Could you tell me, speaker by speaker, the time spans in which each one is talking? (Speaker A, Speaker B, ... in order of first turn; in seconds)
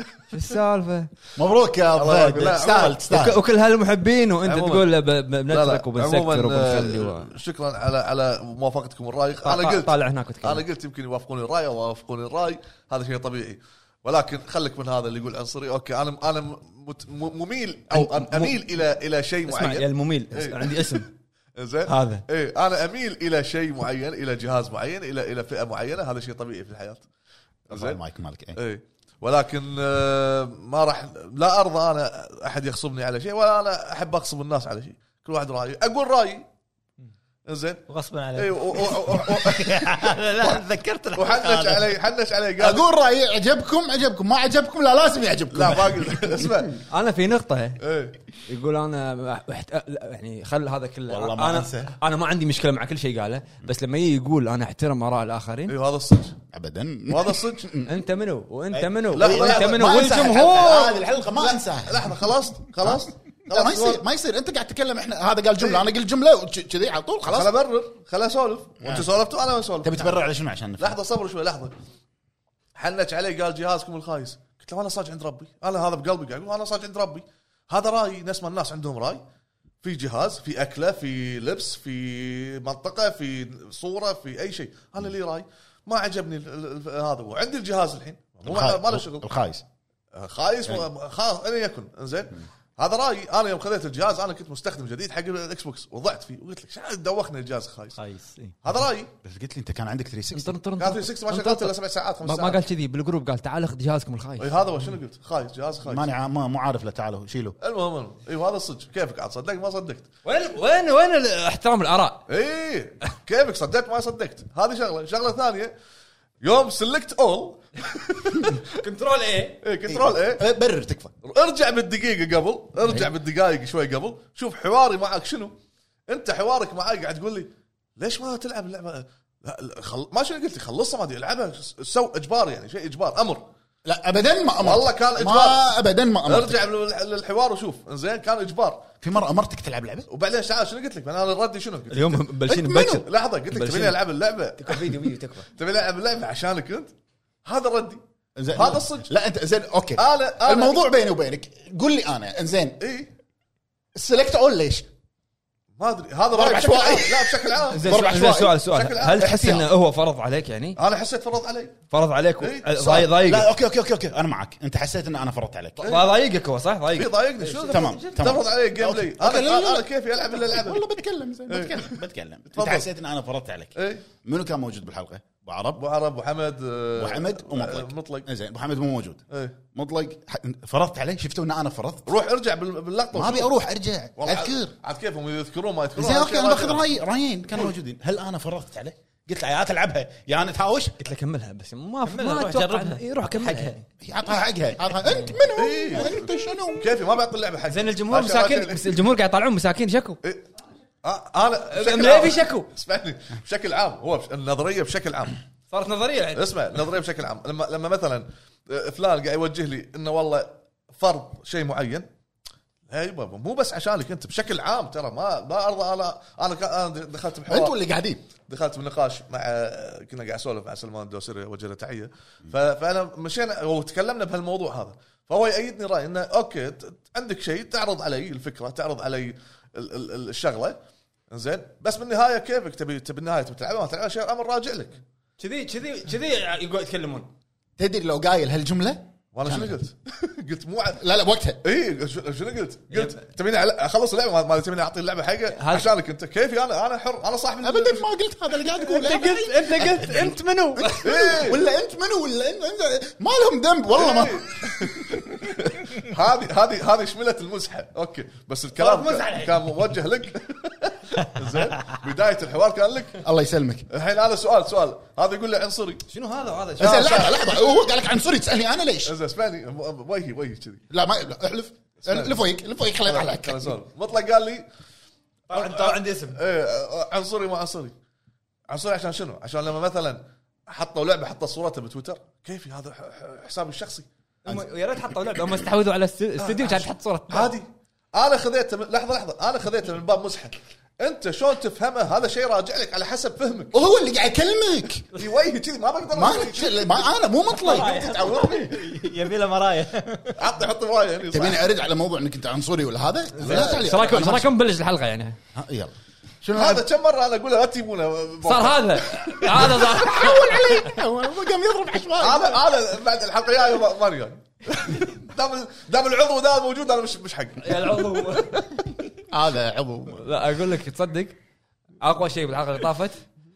Speaker A: 0.3-1.1, 3.0-7.3, 9.4-10.6, 17.9-18.6, 19.5-21.1, 21.9-22.2, 46.9-47.8, 48.5-55.8, 57.9-61.0, 100.3-104.5, 110.2-112.2, 118.7-119.6, 141.9-144.0, 144.6-145.5, 157.7-160.8, 161.9-163.5, 165.8-168.2, 191.0-193.8, 197.7-200.2, 201.7-202.7, 205.7-206.4, 235.4-237.3, 242.9-243.2, 245.5-245.9, 248.7-251.3, 258.8-259.6, 266.1-267.3, 275.5-276.4, 284.4-287.5, 303.4-305.4, 308.4-310.9, 317.6-318.8, 320.1-321.4, 322.0-323.2
Speaker B: 1.4-3.4, 27.7-28.6, 42.6-46.6, 51.1-52.0, 56.5-58.0, 58.7-62.1, 62.8-67.5, 68.8-69.1, 69.8-71.0, 88.5-89.6, 99.2-100.6, 105.8-107.6, 119.9-121.1, 133.8-136.7, 139.0-140.1, 142.6-143.0, 148.4-152.8, 153.9-154.8, 156.3-158.6, 163.3-165.9, 167.7-169.9, 170.4-175.8, 177.0-179.2, 179.7-182.1, 183.1-184.7, 186.0-190.9, 194.0-196.9, 217.5-218.3, 237.8-239.8, 241.0-241.6, 247.6-255.5, 263.2-263.9, 266.8-269.1, 270.9-273.8, 293.7-295.1, 296.1-298.8, 301.3-304.5, 305.5-306.9, 309.4-312.6, 319.3-320.3
Speaker C: 1.9-3.1, 4.4-4.9, 5.5-27.1, 27.7-28.0, 28.6-36.5, 37.5-40.6, 41.1-42.8, 45.5-46.8, 47.8-48.2, 55.7-56.4, 57.1-57.7, 59.1-64.0, 65.6-65.9, 67.3-70.2, 70.8-71.8, 72.8-79.2, 79.8-89.3, 90.1-98.0, 98.6-99.1, 100.8-102.6, 104.4-106.1, 107.6-110.1, 112.3-115.7, 116.4-118.7, 119.6-120.4, 121.2-125.6, 126.1-133.5, 134.6-135.7, 136.2-138.9, 140.1-144.9, 145.5-146.9, 147.4-148.0, 148.5-149.1, 150.0-150.8, 152.8-153.1, 155.8-158.1, 158.6-159.6, 160.8-161.8, 162.4-163.2, 165.8-166.1, 166.9-170.8, 171.5-172.0, 172.5-172.9, 173.8-174.0, 175.8-178.3, 179.3-179.6, 182.1-183.5, 184.2-186.8, 195.5-196.2, 196.8-199.0, 201.0-205.4, 206.3-212.1, 212.9-217.8, 218.5-230.8, 231.3-235.0, 239.3-241.0, 241.6-248.1, 251.0-251.7, 253.9-263.2, 263.9-266.0, 266.8-267.8, 269.1-270.8, 272.0-272.4, 273.1-274.7, 275.5-277.9, 278.7-284.6, 286.4-293.8, 295.1-297.0, 300.4-301.7, 303.4-304.0, 306.5-309.7, 312.2-318.4
Speaker D: 37.9-41.9, 98.0-98.5, 192.0-193.8, 297.5-300.4